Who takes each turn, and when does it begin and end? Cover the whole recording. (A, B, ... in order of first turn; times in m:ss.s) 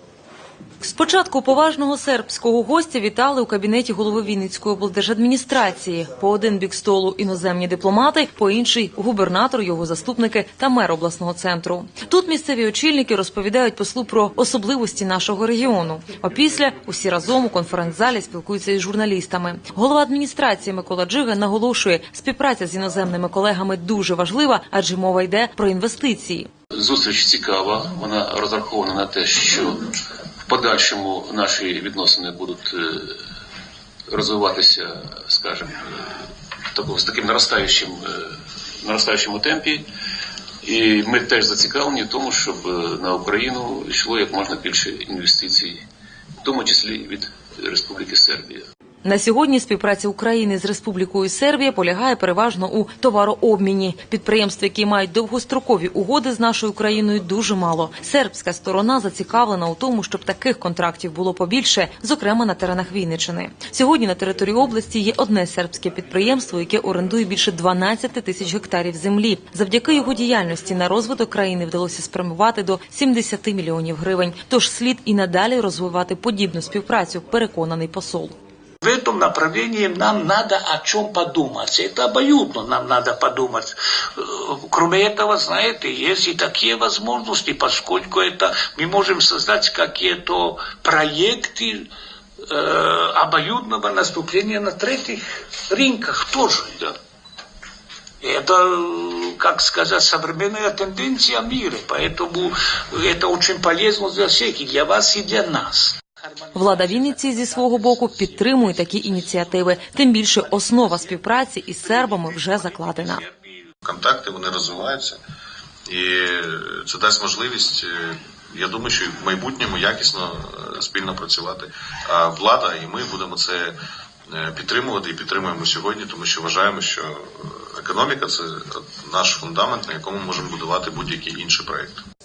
0:00.8-0:26.5 A
0:26.7-0:29.9 B
0:30.5-0:33.2 B
0:34.1-0:36.1 B
0:36.7-0:39.8 B
0:40.6-0:45.8 B
0:46.4-0:48.7 B
0:49.0-1:18.3 A
1:18.8-1:31.9 C
1:32.4-1:36.9 C
1:38.2-1:47.0 C
1:46.5-1:53.2 A
1:52.9-1:53.6 C
1:53.8-1:55.2 D
1:55.9-2:12.0 D